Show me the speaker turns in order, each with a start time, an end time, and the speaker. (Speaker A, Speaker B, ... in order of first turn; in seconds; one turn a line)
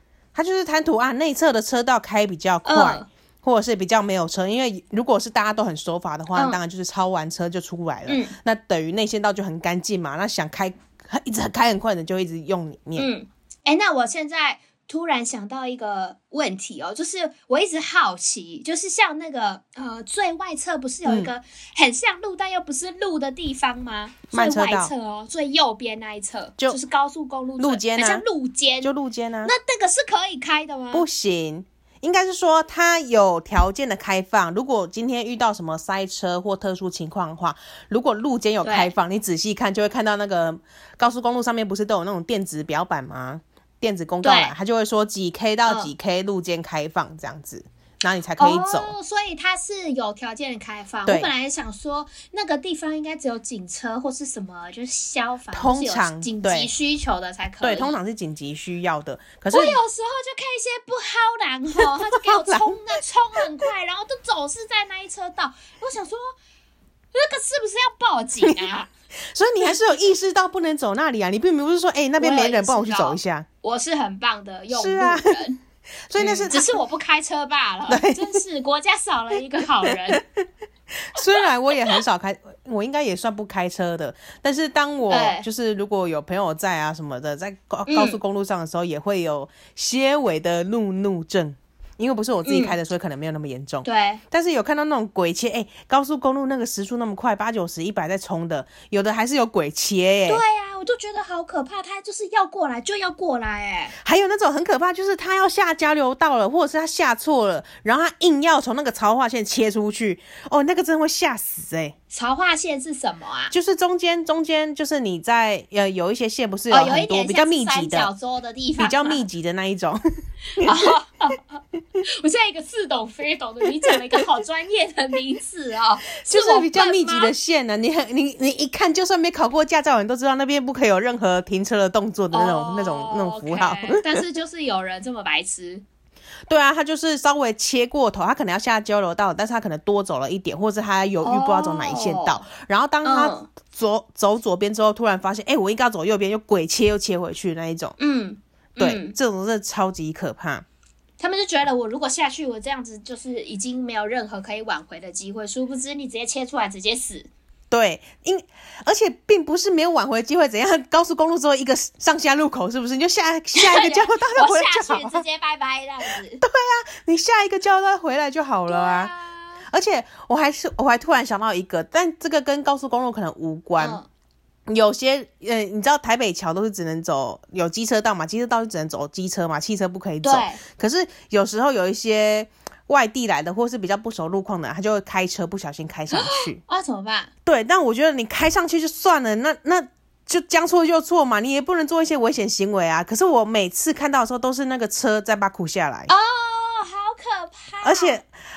Speaker A: 0.3-13.1
Speaker B: 2.6-3.1
Speaker B: 8.1-8.3
Speaker B: 12.9-28.9
Speaker A: 21.1-21.3
Speaker A: 24.3-24.9
Speaker A: 27.6-28.2
Speaker A: 28.8-29.5
Speaker B: 29.4-31.0
Speaker A: 30.9-48.9
Speaker B: 38.6-38.9
Speaker B: 44.2-44.5
Speaker B: 45.6-45.9
Speaker B: 48.4-58.0
Speaker A: 51.0-51.3
Speaker A: 55.5-56.7
Speaker A: 57.6-59.8
Speaker B: 59.5-66.3
Speaker A: 61.8-62.8
Speaker B: 67.1-68.9
Speaker A: 68.4-68.7
Speaker A: 69.3-73.5
Speaker B: 72.2-75.6
Speaker A: 74.7-75.4
Speaker A: 76.1-76.6
Speaker B: 76.2-80.2
Speaker A: 77.9-78.3
Speaker A: 79.8-80.4
Speaker A: 81.0-100.4
Speaker B: 85.1-85.5
Speaker B: 87.9-88.2
Speaker B: 92.4-92.8
Speaker B: 93.8-94.2
Speaker B: 100.3-103.9
Speaker A: 104.0-111.9
Speaker B: 112.1-113.5
Speaker A: 113.5-118.1
Speaker B: 116.7-119.2
Speaker A: 118.8-120.0
Speaker A: 120.6-120.9
Speaker B: 120.6-127.3
Speaker A: 126.2-134.2
Speaker B: 132.3-135.8
Speaker A: 136.5-147.9
Speaker B: 141.2-142.4
Speaker B: 143.0-143.5
Speaker B: 148.0-149.1
Speaker A: 148.8-150.6
Speaker B: 151.2-157.3
Speaker A: 157.7-165.2
Speaker B: 163.5-166.4
Speaker A: 166.4-169.1
Speaker B: 168.7-169.6
Speaker A: 169.7-174.0
Speaker B: 173.8-174.1
Speaker A: 174.7-186.6
Speaker B: 180.2-180.6
Speaker B: 186.1-187.3
Speaker A: 187.4-196.1
Speaker B: 196.1-198.2
Speaker A: 197.8-198.3